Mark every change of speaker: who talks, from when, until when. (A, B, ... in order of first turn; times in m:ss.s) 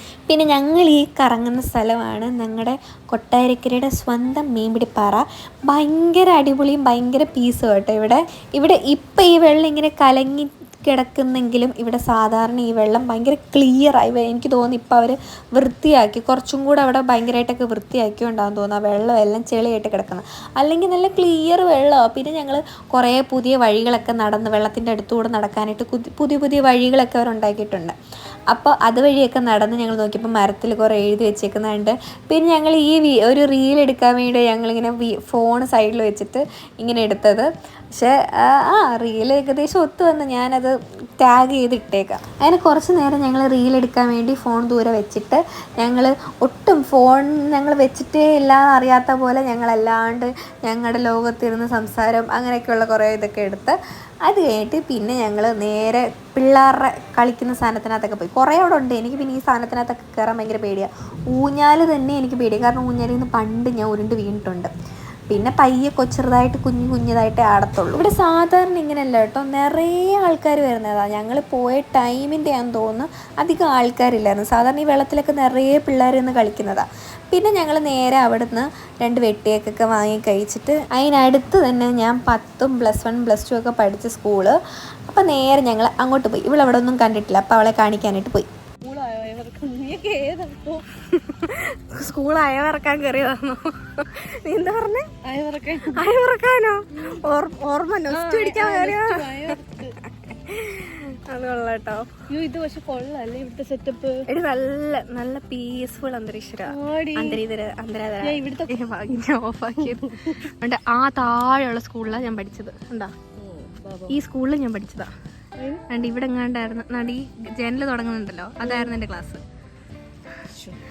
0:00.3-0:27.9 A
0:28.5-1:04.7 A
1:05.3-1:28.5 A
1:28.8-1:30.8 B
1:31.1-1:35.1 A
1:35.2-1:36.1 B
1:35.9-1:42.1 A
1:38.1-1:40.0 B
1:42.3-1:44.2 B
1:44.3-1:53.1 A
1:46.7-1:47.4 B
1:48.2-1:48.9 B
1:49.8-1:50.4 B
1:53.4-1:54.2 B
1:54.1-1:55.1 A
1:55.6-1:55.8 B
1:55.9-1:59.4 A
1:58.6-1:59.0 B
2:00.5-2:00.8 B